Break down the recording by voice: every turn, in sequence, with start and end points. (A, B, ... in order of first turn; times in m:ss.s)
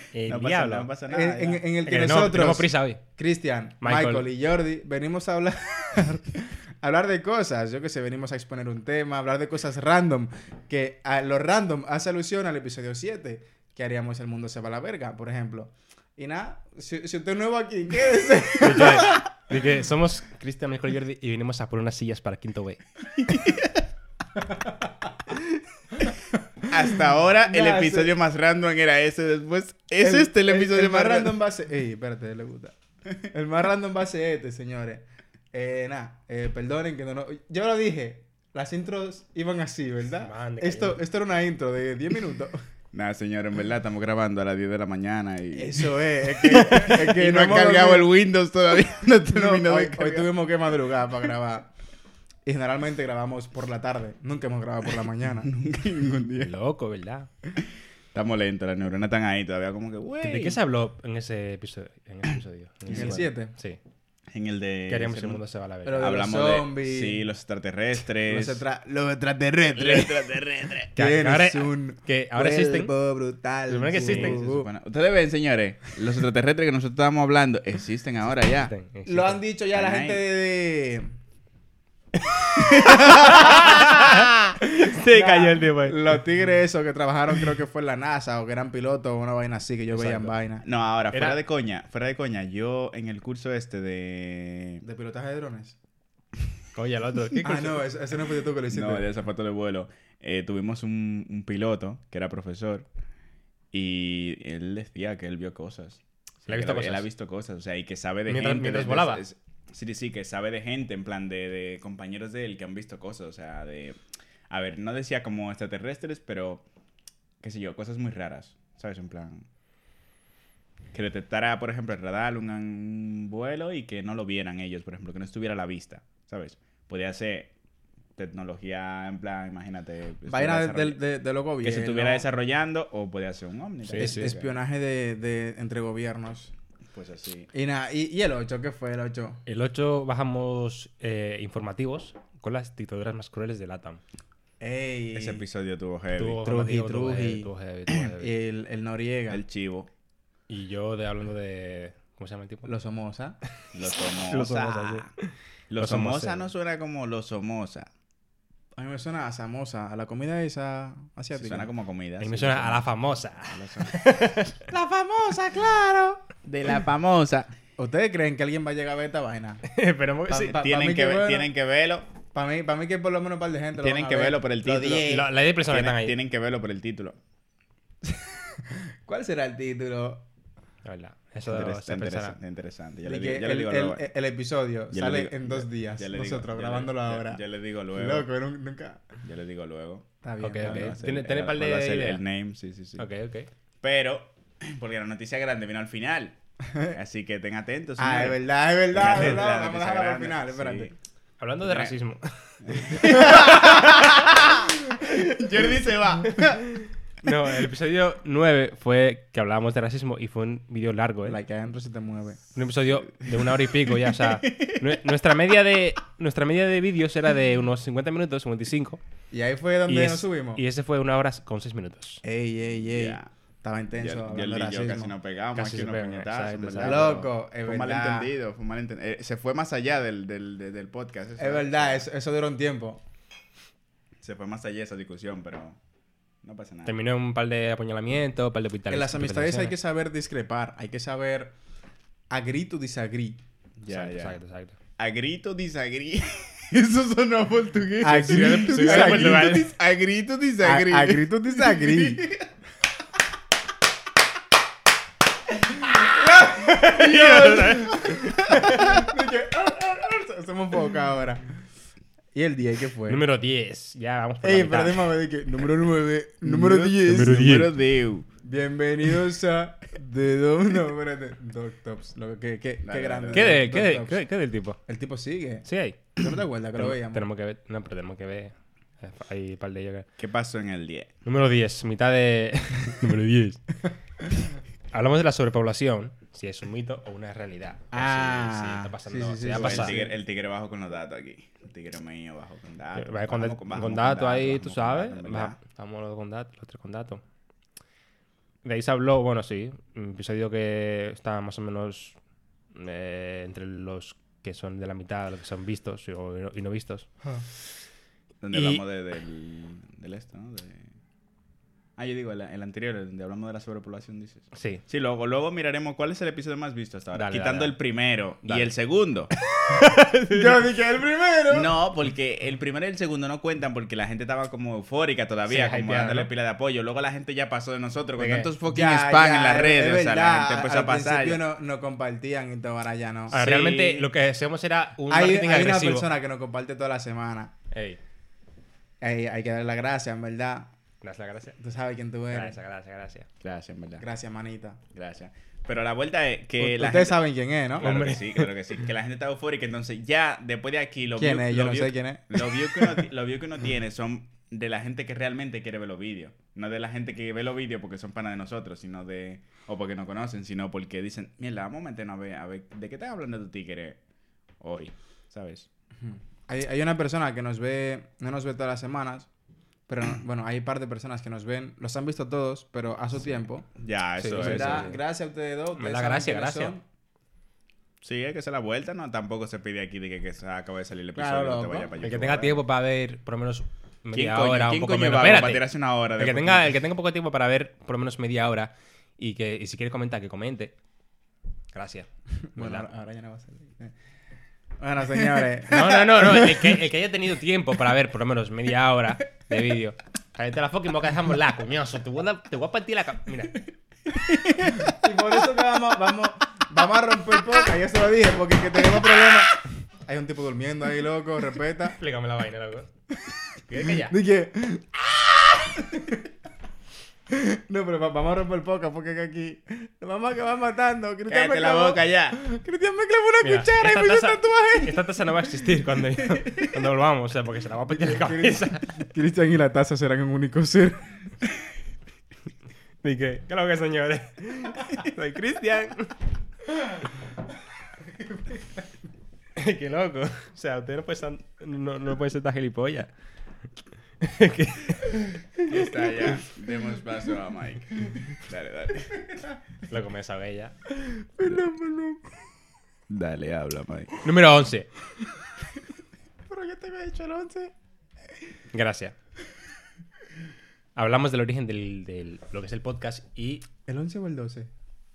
0:00.1-0:00.9 A
0:00.2-0:01.6 B
0:01.1-0:19.3 C
0:01.9-0:03.0 A
0:03.8-0:04.3 A
0:18.6-0:22.8 A
0:23.2-0:23.8 B
0:24.4-0:24.9 C
0:26.7-0:31.4 B
0:27.4-0:28.2 C
0:30.0-0:42.6 C
0:40.2-0:41.0 A
0:42.9-0:50.3 B
0:45.5-0:48.1 C
0:49.3-0:51.7 C
0:52.5-0:55.5 C
0:55.4-0:56.5 B
0:56.4-0:57.3 A
0:58.1-1:00.6 B
1:00.2-1:03.8 A
1:02.9-1:03.2 B
1:02.9-1:03.5 C
1:04.3-1:05.4 B
1:04.9-1:06.1 A
1:05.8-1:07.3 C
1:06.0-1:08.6 B
1:08.2-1:10.4 C
1:09.8-1:10.9 B
1:10.9-1:14.7 C
1:11.0-1:12.9 A
1:13.7-1:14.4 A
1:13.9-1:18.7 B
1:18.5-1:19.4 A
1:19.1-1:21.1 C
1:19.7-1:20.2 B
1:22.2-1:26.2 A
1:22.6-1:24.3 B
1:22.8-1:24.1 C
1:25.1-1:30.6 C
1:30.0-1:30.3 A
1:30.6-1:34.8 B
1:31.1-1:31.4 A
1:34.8-1:35.8 C
1:36.8-1:37.8 A
1:37.4-1:39.1 C
1:38.7-1:42.9 B
1:43.7-1:54.0 B
1:46.5-1:47.0 A
1:48.3-1:49.2 A
1:54.5-1:56.6 B
1:57.4-1:59.5 B
2:00.9-2:07.5 B
2:08.2-2:11.0 B
2:10.3-2:12.3 C
2:11.6-2:14.6 B
2:13.8-2:14.3 A
2:14.0-2:16.5 C
2:16.9-2:17.5 B
2:17.5-2:19.4 C
2:19.5-2:24.0 A
2:24.6-2:25.4 C
2:25.2-2:26.4 B
2:26.2-2:28.4 A
2:26.4-2:27.5 C
2:28.2-2:29.4 C
2:29.3-2:29.9 B
2:30.5-2:32.7 A
2:32.7-2:33.4 C
2:33.7-2:35.1 B
2:33.8-2:36.5 A
2:35.7-2:37.9 B
2:38.8-2:41.7 C
2:41.4-2:42.9 B
2:42.2-2:44.7 A
2:43.5-2:44.0 B
2:44.7-2:46.2 C
2:46.4-2:47.5 B
2:47.8-2:49.7 C
2:49.7-2:50.6 A
2:50.3-2:51.5 C
2:50.4-2:52.1 B
2:52.3-2:55.2 C
2:53.8-2:57.2 B
2:55.0-2:56.2 A
2:58.0-3:00.3 C
3:00.8-3:02.4 A
3:01.4-3:04.0 B
3:03.0-3:09.1 C
3:04.9-3:08.3 B
3:09.2-3:10.1 B
3:10.2-3:11.0 C
3:10.4-3:12.2 A
3:10.6-3:13.1 B
3:13.0-3:13.5 A
3:13.8-3:16.4 B
3:16.7-3:17.0 C
3:16.9-3:20.9 B
3:18.0-3:20.9 C
3:19.1-3:19.4 A
3:21.4-3:24.5 A
3:21.6-3:21.9 B
3:22.6-3:26.6 B
3:23.0-3:23.9 C
3:27.2-3:31.4 A
3:31.3-3:32.4 C
3:32.6-3:39.0 A
3:33.2-3:35.0 B
3:39.3-3:40.6 C
3:39.9-3:42.2 A
3:42.2-3:45.2 C
3:42.9-3:43.3 B
3:44.0-3:52.1 B
3:45.5-3:47.2 A
3:46.8-3:48.3 C
3:51.4-3:53.0 C
3:54.2-3:55.8 B
3:56.4-3:57.0 B
3:56.8-3:59.8 A
3:58.9-4:01.6 C
4:02.3-4:03.4 C
4:03.8-4:04.4 B
4:03.9-4:04.8 A
4:05.0-4:12.5 B
4:08.0-4:09.6 C
4:08.2-4:09.7 A
4:10.6-4:12.2 C
4:15.9-4:21.5 C
4:16.4-4:19.0 A
4:22.4-4:23.2 C
4:23.1-4:25.2 A
4:24.4-4:27.3 C
4:26.4-4:28.3 B
4:27.0-4:27.8 A
4:28.4-4:34.2 C
4:32.8-4:33.6 B
4:33.3-4:34.8 A
4:34.9-4:35.6 C
4:35.6-4:36.2 A
4:36.2-4:37.2 C
4:36.8-4:40.1 A
4:40.2-4:41.1 B
4:41.2-4:43.8 A
4:44.9-4:50.0 A
4:47.9-4:50.1 C
4:48.0-4:48.3 B
4:49.5-4:55.6 B
4:53.0-4:57.2 A
4:58.6-5:02.2 A
5:02.7-5:07.6 A
5:08.4-5:10.9 B
5:08.5-5:08.8 A
5:12.0-5:19.3 B
5:14.5-5:14.8 A
5:17.1-5:17.8 A
5:18.4-5:18.7 A
5:19.6-5:20.6 A
5:20.3-5:21.7 C
5:21.5-5:31.4 B
5:25.5-5:26.3 A
5:28.2-5:28.5 A
5:28.7-5:33.4 C
5:33.3-5:34.1 B
5:33.3-5:36.1 A
5:35.1-5:37.5 C
5:37.7-5:38.0 A
5:39.0-5:40.7 C
5:41.0-5:41.6 A
5:41.6-5:42.6 C
5:42.3-5:43.3 A
5:43.4-5:44.0 B
5:44.0-5:44.8 C
5:44.9-5:47.2 B
5:46.6-5:47.9 C
5:47.8-6:04.0 B
5:47.8-5:48.5 A
5:51.2-5:53.0 C
6:04.6-6:05.7 B
6:06.0-6:09.3 C
6:09.9-6:13.7 C
6:13.8-6:14.9 B
6:14.2-6:15.0 A
6:14.3-6:16.8 C
6:15.8-6:16.7 A
6:18.0-6:22.6 B
6:21.2-6:21.9 C
6:22.0-6:30.8 A
6:24.1-6:26.7 B
6:31.7-6:32.9 A
6:32.5-6:33.9 C
6:34.8-6:36.8 C
6:35.7-6:43.6 A
6:44.1-6:45.0 B
6:44.8-6:52.0 C
6:52.0-6:52.9 A
6:53.7-6:54.2 A
6:53.8-6:56.3 C
6:57.3-7:05.2 C
7:01.3-7:02.4 B
7:03.4-7:08.8 A
7:07.9-7:11.1 C
7:13.0-7:16.1 A
7:19.6-7:23.1 A
7:24.2-7:25.8 A
7:25.7-7:29.4 B
7:29.9-7:30.8 A
7:31.2-7:32.3 C
7:33.1-7:34.2 B
7:34.2-7:34.9 A
7:36.5-7:37.7 C
7:38.7-7:39.2 A
7:41.0-7:43.7 A
7:43.9-7:44.7 C